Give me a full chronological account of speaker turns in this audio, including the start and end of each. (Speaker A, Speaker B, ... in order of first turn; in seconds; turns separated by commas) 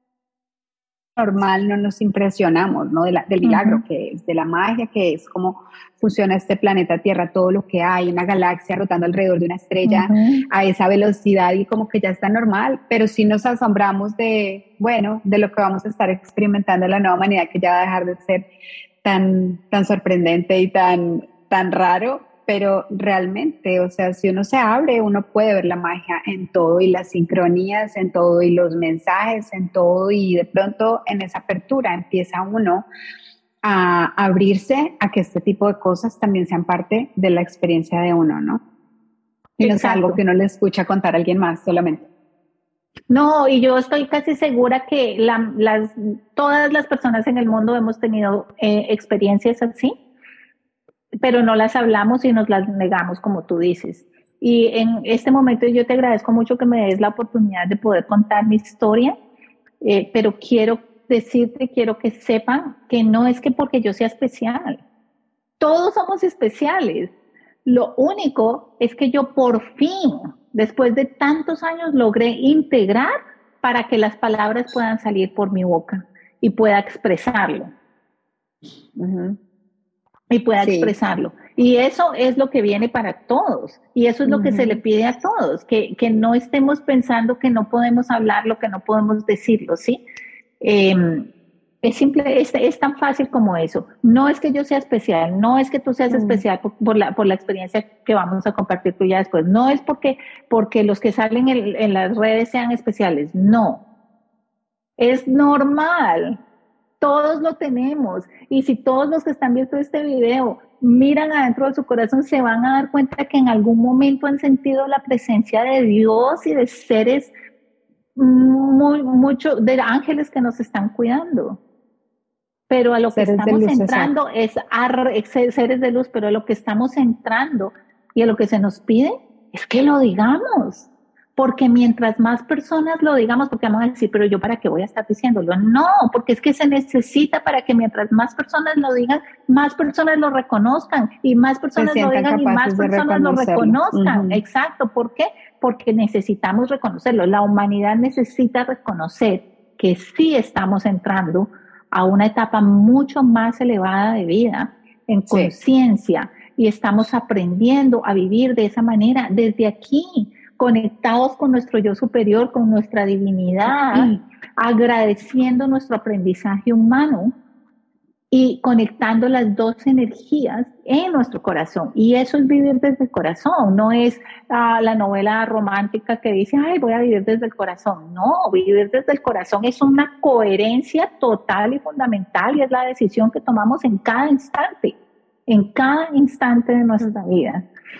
Speaker A: 1.2-18.4, Speaker B: 3.4-3.8, Speaker B: 9.8-10.4, Speaker A: 19.0-32.9, Speaker A: 33.6-38.6, Speaker A: 39.6-42.1, Speaker B: 39.6-40.2, Speaker B: 43.1-49.9, Speaker B: 51.2-59.1, Speaker B: 59.8-64.8, Speaker B: 65.6-67.1, Speaker B: 67.7-77.7, Speaker A: 79.0-79.4, Speaker B: 80.3-90.0, Speaker A: 80.6-80.9, Speaker A: 84.2-84.8, Speaker B: 90.6-91.3, Speaker B: 91.8-103.8, Speaker A: 96.1-96.4, Speaker B: 105.0-106.4, Speaker B: 107.0-117.3, Speaker B: 118.2-121.6, Speaker B: 122.7-167.3, Speaker A: 123.1-124.1, Speaker A: 141.8-144.4, Speaker A: 163.9-164.2, Speaker B: 168.3-187.7